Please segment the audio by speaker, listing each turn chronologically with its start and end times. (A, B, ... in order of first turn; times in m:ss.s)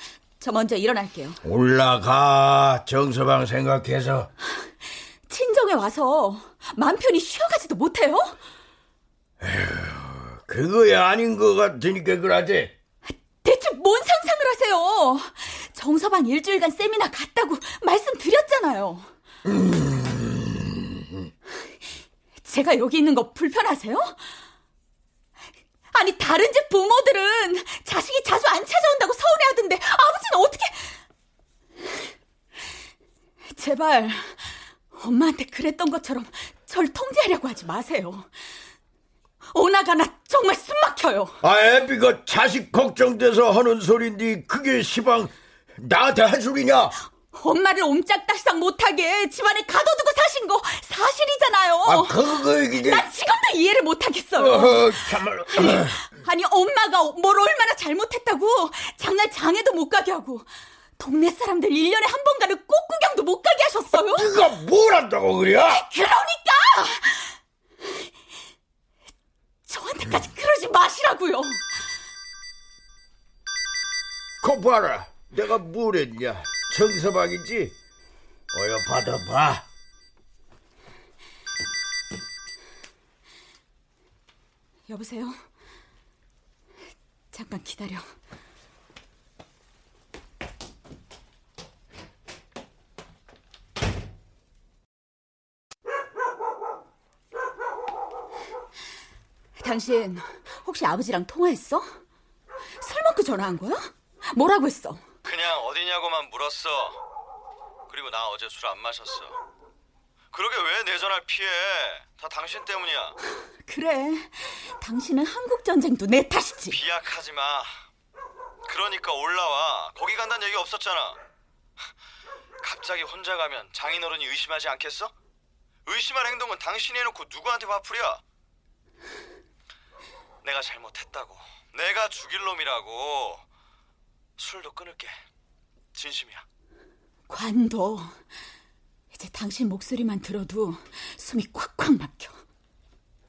0:00.4-0:01.4 A
0:01.4-0:04.3 B
0:04.5-0:08.4 A
0:09.4-0:12.8 B
0:13.1-0:19.1 A
0:19.5-0:21.0 B
0:22.4-0:24.4 A
0:25.9-0:31.0 A
0:33.5-0:38.3 A
0:39.5-0:41.4 A
0:41.4-0:46.9 B
0:47.3-1:04.3 A
0:51.8-0:53.1 B
0:54.4-0:55.9 B
1:04.0-1:05.9 B
1:05.7-1:07.4 A
1:09.7-1:11.8 A
1:14.4-1:17.7 B
1:18.5-1:19.6 B
1:24.9-1:25.4 A
1:27.3-1:28.1 A
1:39.6-1:42.0 A
1:42.8-1:45.0 A
1:45.2-1:47.0 C
1:47.9-1:49.4 C
1:50.3-1:53.2 C
1:53.6-1:56.8 A
1:56.7-1:57.8 C
1:58.6-2:01.2 C
2:02.6-2:05.1 C
2:05.9-2:08.2 C
2:10.4-2:13.4 C
2:14.4-2:15.2 C
2:15.9-2:16.4 C
2:17.3-2:18.2 A
2:19.1-2:22.4 A